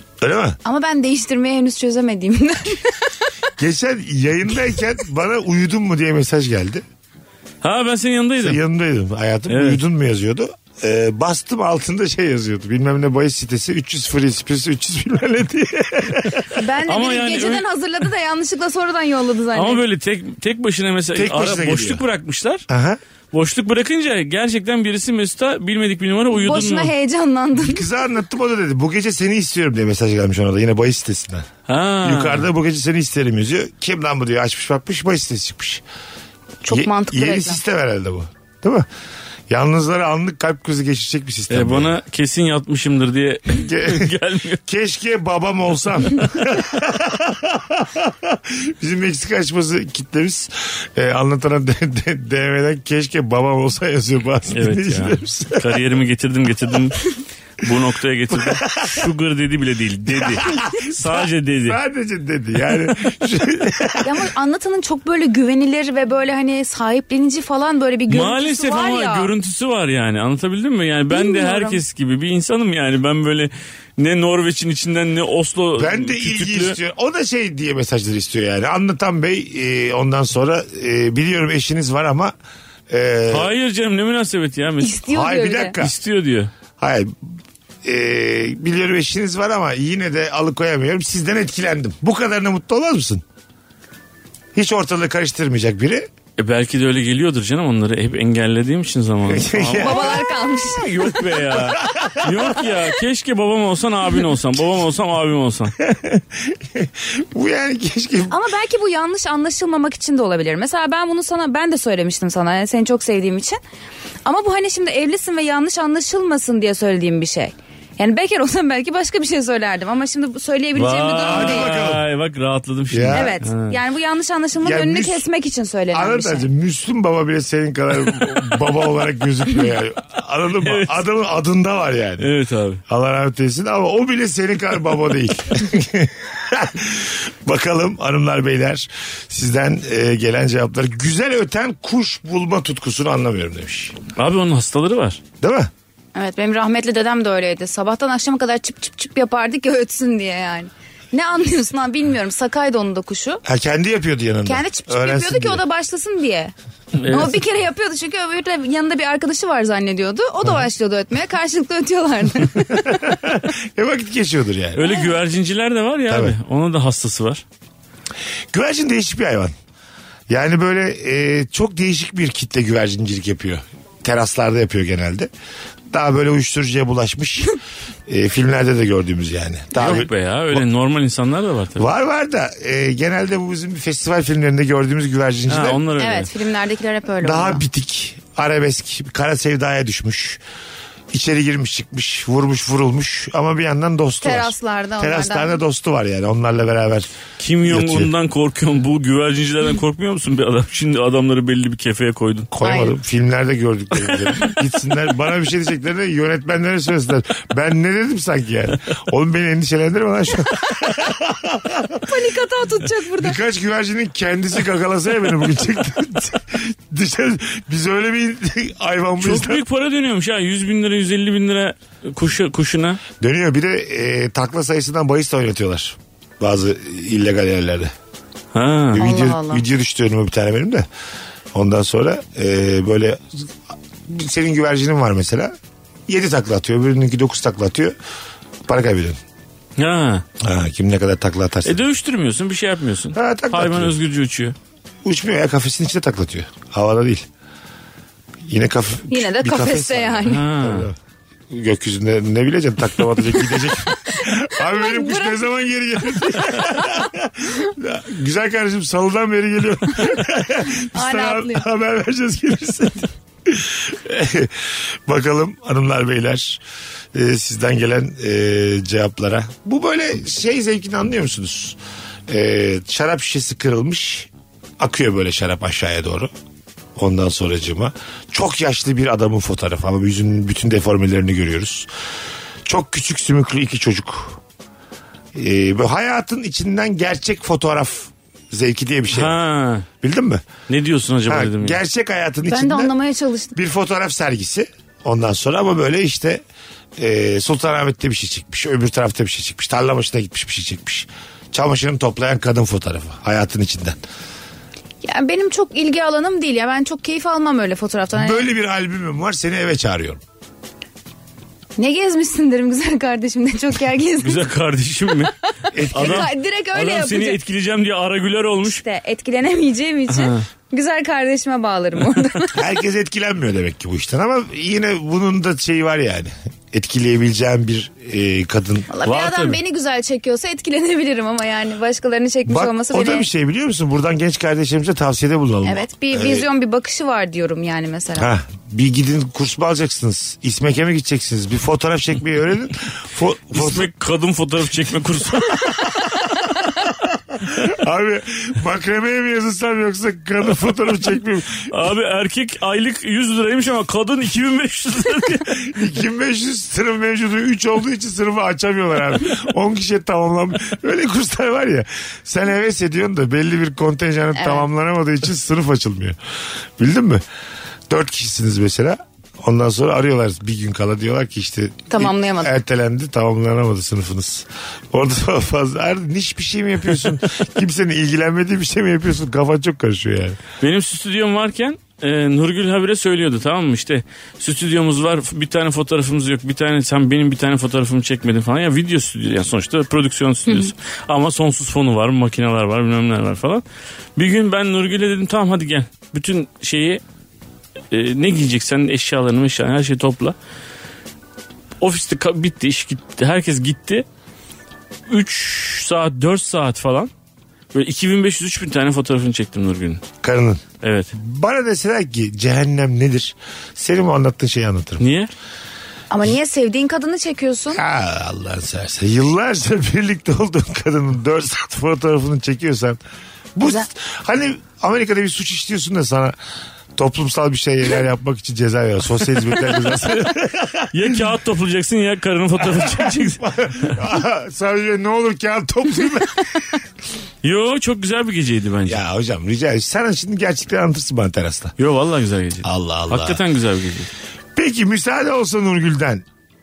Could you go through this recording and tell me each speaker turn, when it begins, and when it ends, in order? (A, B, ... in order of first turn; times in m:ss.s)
0:00.2-0:00.6 A
0:00.6-0:02.9 B
0:03.6-0:06.8 A
0:07.6-0:08.6 C
0:08.4-0:16.6 A
0:09.5-0:09.8 C
0:16.5-0:19.8 B
0:16.8-0:17.6 C
0:19.5-0:22.6 C
0:21.1-0:22.0 A
0:22.7-0:23.0 A
0:23.3-0:26.9 C
0:26.3-0:27.8 B
0:27.6-0:31.5 A
0:31.7-0:32.5 C
0:32.0-0:35.8 A
0:36.6-0:37.6 B
0:36.7-0:38.8 A
0:39.5-0:41.9 A
0:41.5-0:44.6 C
0:43.5-0:55.8 A
0:54.5-1:01.8 C
0:58.3-0:59.1 A
1:00.1-1:04.2 A
1:04.0-1:09.3 B
1:08.1-1:16.8 C
1:11.1-1:11.8 B
1:15.8-1:22.3 A
1:22.9-1:23.5 A
1:23.3-1:25.0 C
1:24.8-1:25.8 B
1:25.1-1:25.9 A
1:25.8-1:26.5 C
1:26.8-1:27.3 A
1:27.8-1:33.2 A
1:34.5-1:36.1 A
1:36.4-1:45.7 C
1:39.2-1:40.3 A
1:39.8-1:41.1 B
1:41.5-1:42.5 A
1:45.8-1:48.4 A
1:48.3-1:53.6 B
1:54.2-2:01.7 B
2:00.8-2:03.8 C
2:01.2-2:02.0 A
2:02.9-2:03.4 A
2:03.1-2:06.5 B
2:04.6-2:05.2 A
2:05.9-2:12.3 A
2:10.6-2:11.0 C
2:12.2-2:12.8 C
2:12.9-2:24.0 A
2:24.2-2:25.2 C
2:25.4-2:25.7 A
2:26.1-2:33.4 B
2:33.4-2:35.6 A
2:34.4-2:36.5 B
2:36.9-2:37.3 C
2:37.0-2:43.1 B
2:42.8-2:44.8 A
2:44.7-2:47.4 C
2:46.1-2:46.4 A
2:48.5-2:49.5 A
2:50.3-2:55.3 A
2:55.9-3:00.6 A
2:59.7-3:01.8 C
3:01.8-3:05.8 A
3:05.5-3:06.3 C
3:06.0-3:07.6 B
3:07.2-3:10.4 A
3:11.1-3:17.1 A
3:14.2-3:15.6 B
3:17.4-3:22.5 C
3:17.6-3:18.1 A
3:22.5-3:32.0 A
3:22.6-3:22.9 B
3:32.0-3:33.4 B
3:33.2-3:39.6 A
3:39.2-3:43.0 C
3:43.2-3:47.9 A
3:48.5-3:49.0 C
3:48.9-3:50.8 A
3:49.0-3:49.6 B
3:51.5-3:53.5 A
3:54.1-3:55.5 A
3:56.1-3:57.9 A
3:58.6-3:59.2 A
3:59.8-4:00.2 C
4:00.4-4:01.8 A
4:01.6-4:04.5 C
4:03.1-4:03.9 A
4:05.0-4:07.2 A
4:08.4-4:11.0 A
4:09.1-4:10.4 B
4:10.2-4:10.9 C
4:11.5-4:26.6 A
4:14.1-4:15.4 B
4:16.5-4:17.1 B
4:20.7-4:21.6 B
4:27.1-4:36.3 A
4:37.0-4:41.9 A
4:42.6-4:44.4 A
4:45.3-4:49.4 A
4:49.1-4:49.9 C
4:50.0-4:50.4 A
4:50.7-4:51.8 C
4:51.3-4:52.9 A
4:52.5-4:53.5 B
4:53.5-4:56.4 A
4:57.0-5:04.0 A
5:05.0-5:08.4 B
5:08.2-5:10.2 A
5:11.8-5:14.4 B
5:14.2-5:15.3 C
5:15.7-5:16.3 A
5:15.8-5:17.4 B
5:15.9-5:18.8 C
5:18.6-5:22.6 B
5:20.1-5:20.4 C
5:22.5-5:28.9 A
5:28.9-5:33.3 B
5:29.0-5:29.6 C
5:32.5-5:36.4 A
5:35.6-5:38.3 B
5:38.2-5:43.9 A
5:43.5-5:46.0 C
5:46.8-5:51.7 A
5:51.7-5:55.7 C
5:55.6-6:06.2 A
6:04.3-6:04.6 B
6:06.8-6:07.2 A
6:07.9-6:20.4 A
6:11.9-6:12.5 B
6:20.6-6:33.6 C
6:30.5-6:30.7 B
6:34.2-6:37.0 C
6:37.9-6:40.3 C
6:41.8-6:44.0 C
6:45.1-6:47.1 C
6:47.7-6:50.0 C
6:50.2-6:55.0 A
6:50.8-6:51.1 C
6:55.0-6:55.3 C
6:56.1-6:57.8 B
6:57.7-7:03.0 A
7:03.6-7:06.3 A
7:07.0-7:11.2 A
7:10.9-7:13.9 C
7:12.6-7:16.8 A
7:17.4-7:19.0 C
7:18.8-7:21.7 A
7:21.8-7:24.1 C
7:22.6-7:23.4 A
7:24.6-7:26.2 A